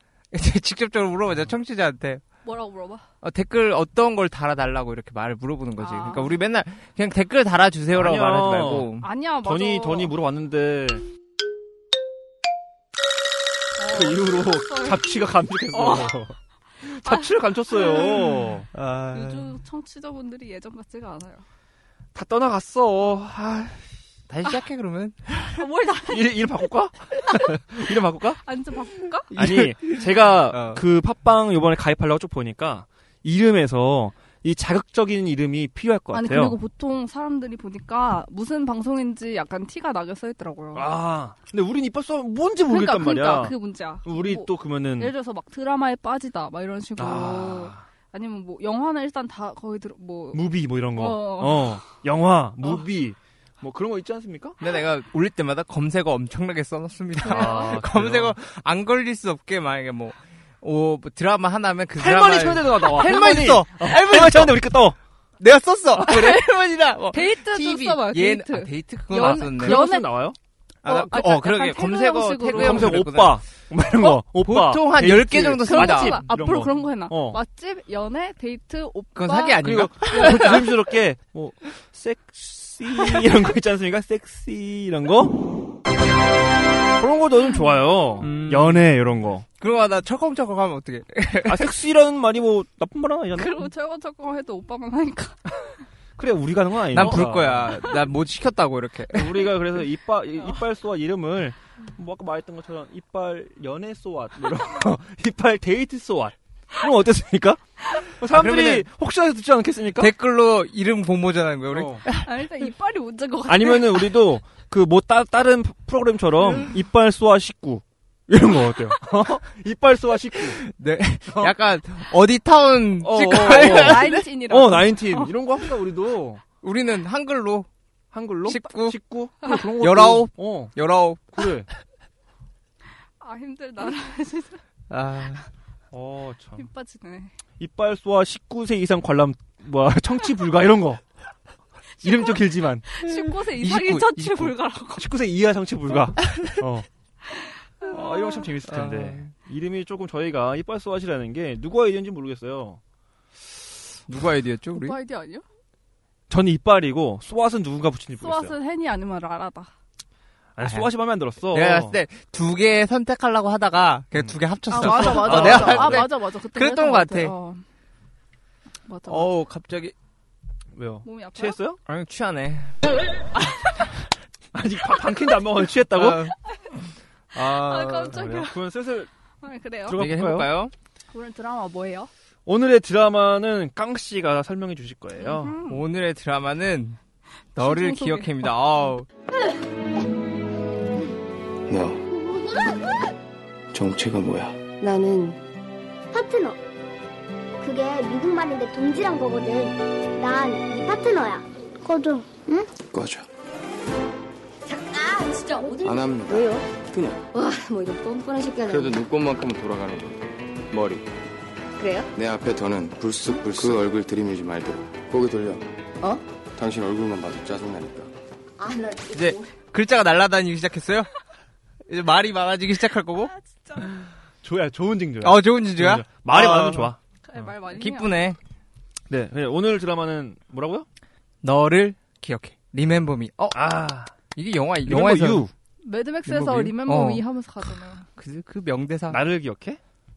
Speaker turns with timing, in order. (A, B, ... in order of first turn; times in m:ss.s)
0:00.3-0:02.2 A
0:02.4-0:03.0 B
0:03.2-0:09.1 A
0:05.8-0:06.3 B
0:07.9-0:08.9 C
0:09.0-0:10.1 B
0:09.4-0:11.0 C
0:13.8-0:16.2 B
0:13.9-0:18.7 C
0:16.9-0:18.5 B
0:18.7-0:19.6 A
0:19.1-0:21.4 B
0:22.1-0:23.9 C
0:24.3-0:25.6 A
0:25.5-0:26.5 B
0:26.1-0:28.4 C
0:28.4-0:29.3 B
0:29.3-0:30.8 A
0:29.4-0:36.6 C
0:36.1-0:40.9 B
0:40.7-0:45.1 C
0:42.6-0:51.8 B
0:47.0-0:47.8 C
0:50.3-0:54.6 C
0:54.6-1:04.6 A
0:57.2-0:57.8 B
0:57.2-0:58.3 C
1:02.0-1:05.0 C
1:05.4-1:09.8 A
1:06.0-1:06.5 B
1:07.1-1:10.1 B
1:09.1-1:10.4 C
1:10.8-1:13.4 A
1:10.8-1:13.0 B
1:12.5-1:17.4 C
1:14.4-1:16.2 A
1:15.7-1:20.7 B
1:19.1-1:20.7 A
1:19.6-1:25.3 C
1:27.0-1:29.4 C
1:28.2-1:28.9 A
1:29.6-1:31.7 A
1:31.4-1:33.6 C
1:33.4-1:35.7 B
1:36.2-1:37.8 C
1:36.9-1:39.5 A
1:37.0-1:37.2 B
1:39.1-1:50.1 C
1:48.3-1:48.9 A
1:50.0-1:52.2 A
1:51.7-1:52.0 C
1:52.1-1:54.2 B
1:53.4-2:00.6 C
2:00.5-2:04.2 A
2:03.0-2:06.4 C
2:03.3-2:05.3 B
2:06.6-2:07.7 A
2:08.1-2:10.7 C
2:08.4-2:09.0 A
2:09.8-2:11.5 A
2:11.3-2:11.7 C
2:13.2-2:14.6 B
2:14.9-2:15.4 A
2:15.9-2:16.7 C
2:16.6-2:17.3 B
2:17.6-2:21.0 C
2:22.0-2:22.9 C
2:22.0-2:25.1 B
2:23.6-2:24.5 A
2:25.0-2:26.9 C
2:27.3-2:28.5 B
2:27.9-2:32.8 C
2:28.7-2:29.3 A
2:34.1-2:35.0 A
2:34.7-2:35.4 B
2:36.3-2:38.6 C
2:38.2-2:39.7 B
2:40.6-2:42.0 C
2:40.6-2:40.9 A
2:41.5-2:47.3 A
2:44.1-2:46.1 C
2:44.7-2:47.6 B
2:48.8-2:49.3 B
2:49.1-2:49.9 A
2:50.7-2:51.8 C
2:51.0-2:51.6 B
2:51.8-2:52.7 A
2:54.5-2:56.3 C
2:55.9-2:56.4 A
2:57.3-2:58.2 A
2:57.4-2:58.6 B
2:58.1-2:59.1 C
2:59.4-3:00.0 B
2:59.8-3:00.5 C
2:59.9-3:00.7 A
3:01.1-3:02.1 B
3:02.4-3:05.5 C
3:05.2-3:05.8 B
3:05.7-3:07.0 A
3:07.6-3:09.1 A
3:07.6-3:08.5 B
3:11.7-3:12.0 D
3:13.7-3:14.6 D
3:14.8-3:15.4 E
3:16.1-3:16.6 F
3:17.6-3:22.4 F
3:22.8-3:23.3 D
3:24.6-3:26.7 E
3:25.8-3:27.2 D
3:27.3-3:29.0 E
3:28.7-3:31.1 D
3:31.8-3:32.1 E
3:32.1-3:35.6 D
3:33.5-3:33.8 E
3:36.5-3:38.1 D
3:38.6-3:39.5 E
3:39.1-3:41.1 A
3:41.9-3:43.3 A
3:43.2-3:44.0 B
3:44.4-3:47.5 C
3:45.2-3:46.9 A
3:47.2-3:48.2 B
3:47.7-3:48.4 A
3:49.1-3:50.9 C
3:51.4-3:53.7 A
3:53.5-3:54.1 C
3:54.3-3:55.4 A
3:54.8-3:55.5 C
3:55.8-3:58.1 B
3:56.3-3:57.2 A
3:58.2-3:59.2 A
3:59.1-3:59.8 C